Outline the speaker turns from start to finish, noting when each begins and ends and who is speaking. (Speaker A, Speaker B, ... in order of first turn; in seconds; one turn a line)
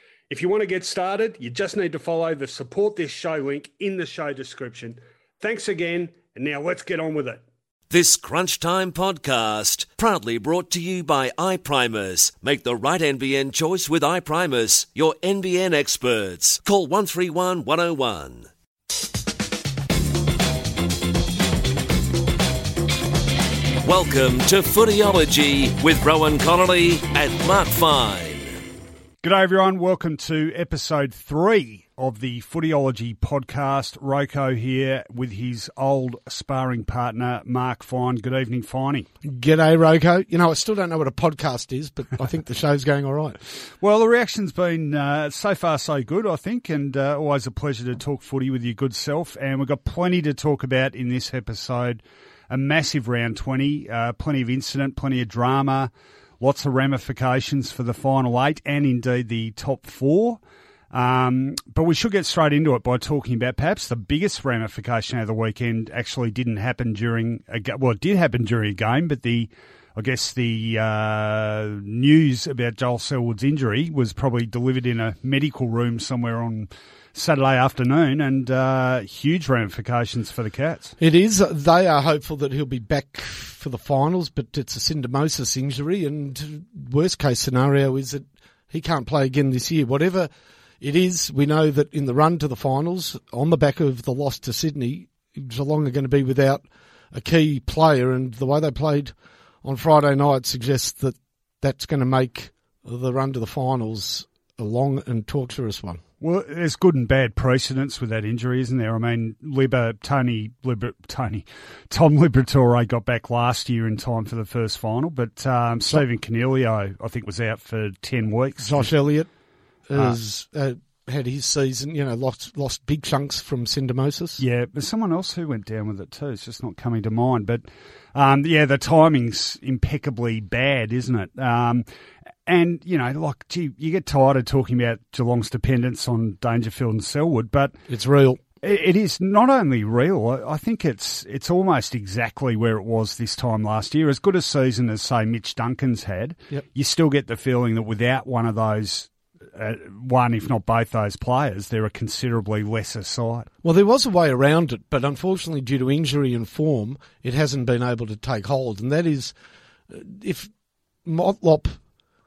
Speaker A: 0.3-7.4
Speaker B: 7.9-18.5
Speaker B: 23.8-28.5
Speaker A: 29.2-39.1
Speaker C: 39.2-43.4
Speaker A: 43.8-60.4
Speaker A: 60.9-80.9
Speaker C: 81.0-90.3
Speaker C: 90.8-99.1
Speaker C: 99.6-106.0
Speaker A: 106.2-118.9
Speaker C: 118.6-119.3
Speaker C: 119.9-124.4
Speaker A: 124.4-131.9
Speaker A: 132.5-137.8
Speaker C: 137.9-138.4
Speaker A: 138.6-153.5
Speaker C: 153.6-159.3
Speaker C: 159.9-160.5
Speaker C: 161.1-161.8